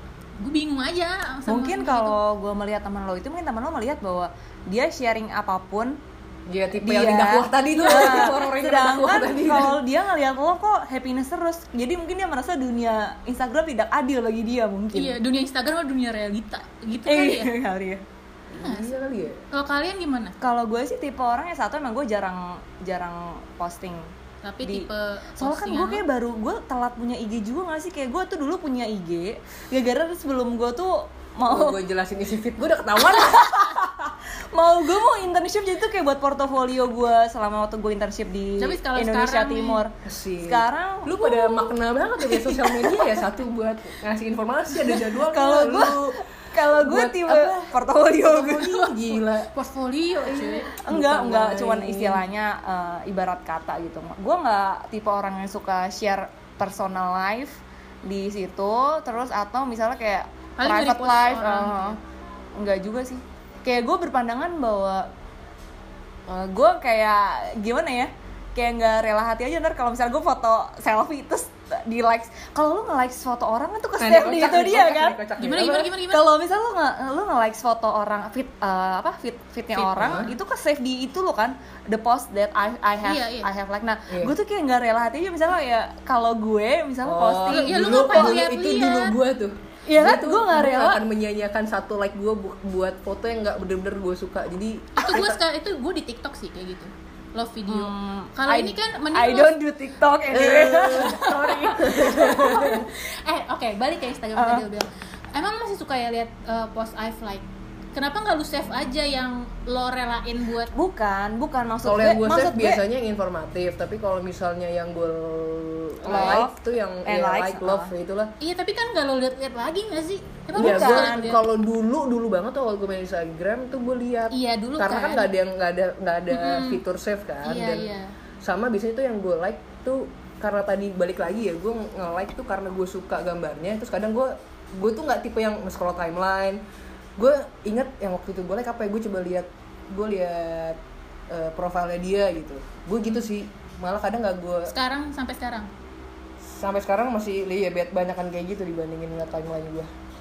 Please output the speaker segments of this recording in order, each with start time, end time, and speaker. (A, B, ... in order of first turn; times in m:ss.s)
0:00.4-0:02.2 A
0:01.5-0:06.0 B
0:06.5-0:09.8 C
0:06.8-0:15.2 B
0:07.7-0:08.3 A
0:14.9-0:17.5 A
0:17.1-0:18.0 B
0:18.5-0:19.4 C
0:18.6-0:18.9 A
0:19.5-0:20.4 A
0:20.4-0:24.1 B
0:24.4-0:26.0 A
0:25.4-0:31.8 B
0:31.4-0:33.7 C
0:33.0-0:43.2 B
0:38.6-0:39.8 A
0:40.0-0:49.5 C
0:44.8-0:49.0 B
0:49.5-0:50.7 A
0:50.2-0:52.2 C
0:50.8-1:02.0 B
1:00.6-1:02.0 A
1:02.6-1:05.1 B
1:06.3-1:28.4 B
1:14.0-1:15.9 C
1:15.4-1:16.3 A
1:19.8-1:20.3 C
1:23.0-1:23.5 A
1:24.1-1:24.3 C
1:27.0-1:35.4 C
1:27.5-1:29.2 A
1:29.8-1:31.0 B
1:34.9-1:39.6 A
1:37.7-1:42.6 B
1:40.3-1:42.9 C
1:40.8-1:50.7 A
1:44.3-1:44.6 B
1:50.7-1:52.8 B
1:51.8-1:58.3 C
1:56.0-1:57.9 B
1:56.1-1:56.4 A
1:58.4-2:01.4 A
2:00.5-2:01.3 B
2:00.5-2:16.6 C
2:04.3-2:05.3 A
2:06.3-2:06.8 A
2:07.4-2:08.1 A
2:17.2-2:20.8 C
2:21.3-2:24.7 C
2:24.7-2:25.7 A
2:26.5-2:29.9 C